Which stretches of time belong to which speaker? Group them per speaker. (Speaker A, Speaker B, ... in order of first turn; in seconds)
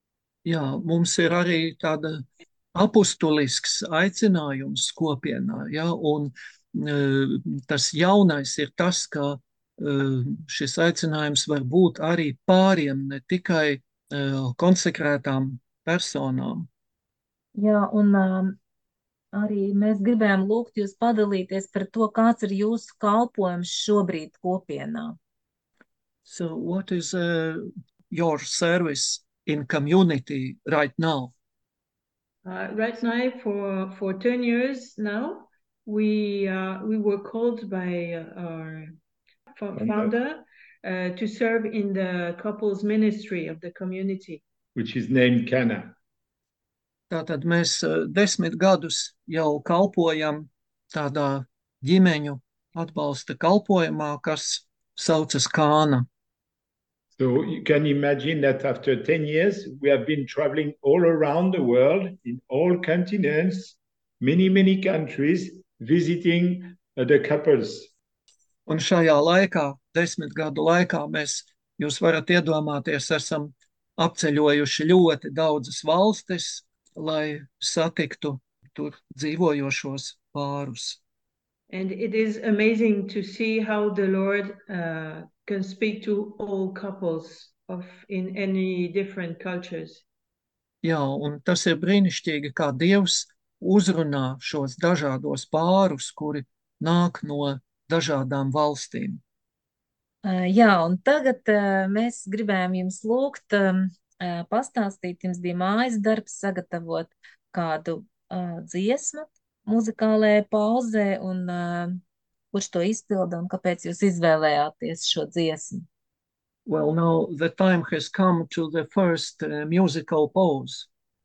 Speaker A: 0.4-16.7, 26.2-31.3, 47.1-56.1, 68.7-81.0, 90.8-99.2, 116.7-120.9
Speaker B: 17.6-18.6, 19.3-25.2, 100.2-112.0, 112.5-115.9
Speaker C: 32.4-38.9, 39.5-44.4, 81.7-90.0
Speaker D: 39.8-40.1, 44.7-45.9, 57.1-67.9